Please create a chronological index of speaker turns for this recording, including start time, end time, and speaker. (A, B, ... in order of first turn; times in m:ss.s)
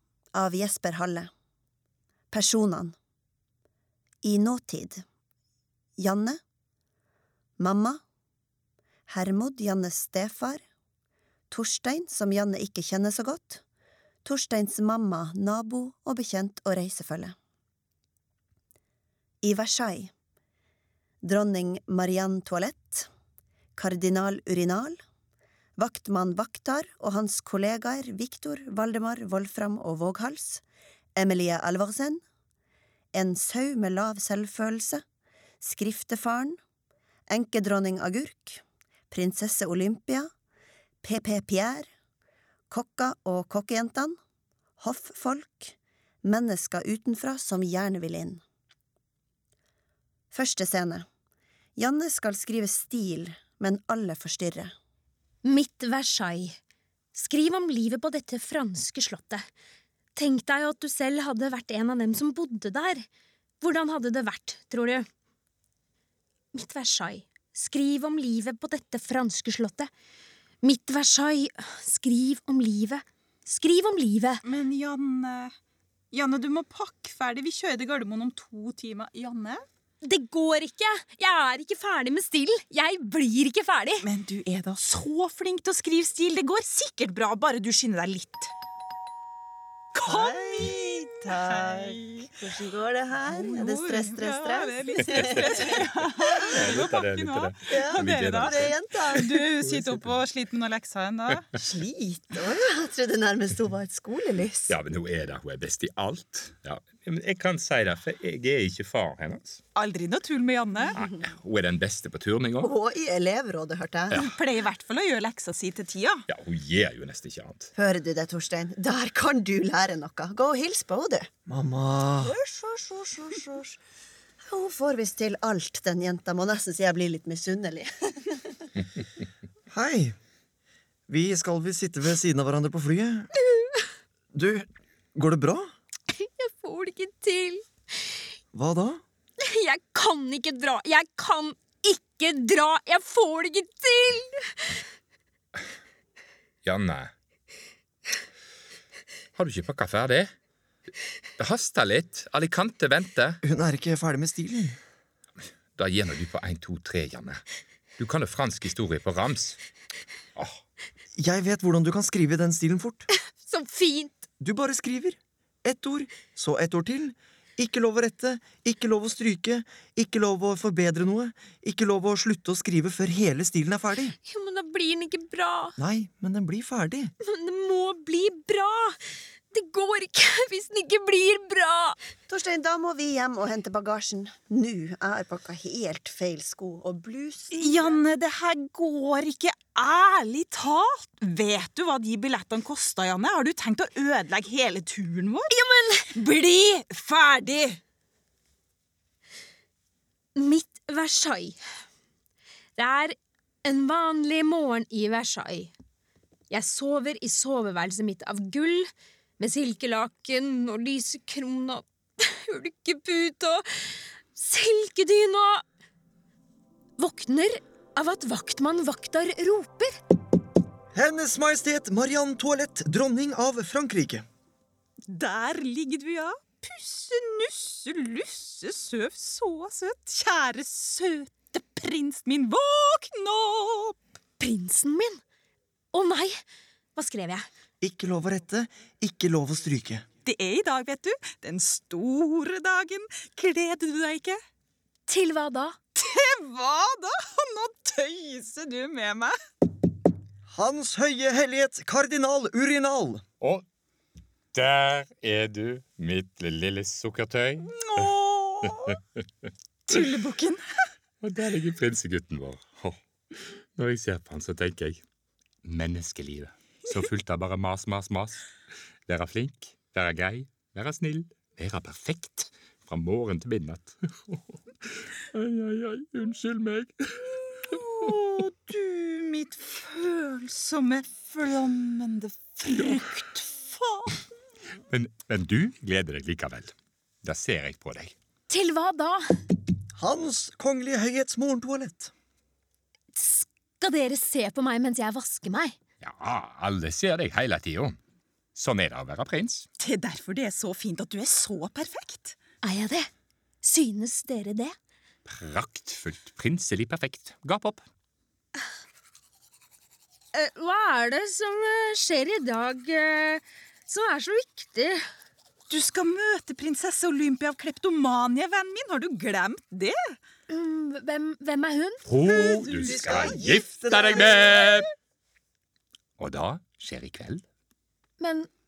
0:00.3-0:01.3 A
0:02.3-0:02.9 A
0:04.2-0:05.0 A
0:06.0-0:06.4 A
0:07.6-0:08.0 A
0:09.1-0:10.6 A
0:11.5-0:13.6 A
0:14.2-0:17.3 A
0:19.4-0:20.1 A
0:21.2-0:23.1 A
0:23.8-0:25.0 A
0:25.8-0:30.6 A
0:31.2-0:32.2 A
0:33.1-0:35.0 A
0:35.6-0:36.6 A
0:37.3-0:40.3 A
0:41.0-0:41.9 A
0:42.7-0:44.2 A
0:44.8-0:48.4 A
0:50.3-0:51.0 A
0:51.8-0:54.7 A
0:55.4-0:56.6 B
0:57.1-0:59.4 B
1:00.2-1:03.0 B
1:03.6-1:05.1 B
1:06.5-1:09.9 B
1:10.6-1:14.4 B
1:14.4-1:15.5 C
1:16.1-1:19.6 C
1:20.0-1:24.0 B
1:24.0-1:28.5 C
1:29.9-1:30.8 C
1:30.0-1:35.7 A
1:31.3-1:32.0 C
1:33.3-1:41.5 C
1:36.6-1:38.6 D
1:37.7-1:39.4 A
1:41.5-1:44.8 A
1:44.7-1:49.6 D
1:49.8-1:51.0 C
1:51.0-1:52.7 D
1:52.6-1:54.3 A
1:54.1-1:56.2 C
1:56.3-1:57.7 D
1:57.8-2:01.3 A
2:01.5-2:02.3 E
2:02.2-2:03.8 A
2:04.5-2:08.6 A
2:09.7-2:10.2 E
2:11.1-2:13.3 E
2:13.5-2:13.8 B
2:14.3-2:15.7 E
2:16.1-2:17.6 B
2:18.5-2:19.0 E
2:19.4-2:24.8 B
2:26.6-2:27.1 D
2:29.3-2:30.3 D
2:31.4-2:33.4 D
2:33.4-2:34.8 E
2:35.8-2:37.4 D
2:38.0-2:39.6 D
2:41.2-2:43.0 E
2:43.1-2:44.2 B
2:44.4-2:54.1 E
2:54.2-2:55.7 B
2:55.8-2:57.1 E
2:57.2-2:58.9 B
2:59.5-3:02.0 B
3:02.3-3:08.0 A
3:07.5-3:15.5 C
3:15.5-3:16.1 B
3:16.1-3:17.8 C
3:20.4-3:21.6 B
3:22.8-3:25.7 B
3:26.5-3:35.6 B
3:37.0-3:39.9 B
3:40.9-3:44.2 E
3:45.1-3:54.0 C
3:54.4-3:55.2 B
3:55.9-3:56.4 B
3:56.9-3:57.4 B
3:57.8-4:00.0 E
4:00.2-4:04.4 C
4:05.1-4:05.8 B
4:06.0-4:09.3 C
4:10.5-4:13.2 E
4:13.4-4:13.6 D
4:14.5-4:17.7 D
4:17.7-4:19.0 C
4:19.8-4:20.6 C
4:21.2-4:25.0 D
4:25.6-4:28.4 D
4:29.1-4:34.4 D
4:35.3-4:36.9 D
4:37.6-4:44.2 C
4:44.9-4:48.1 D
4:48.5-4:49.2 B
4:49.9-4:52.1 E
4:53.1-4:55.8 B
4:56.0-4:58.0 D
4:58.5-4:59.6 D
4:59.8-5:02.4 C
5:02.6-5:03.1 B
5:03.6-5:04.7 B
5:05.3-5:07.8 D
5:10.3-5:15.0 B
5:15.7-5:20.1 C
5:20.5-5:22.0 B
5:22.0-5:24.9 D
5:22.3-5:24.8 E
5:22.4-5:23.4 C
5:26.2-5:27.4 D
5:28.2-5:28.5 B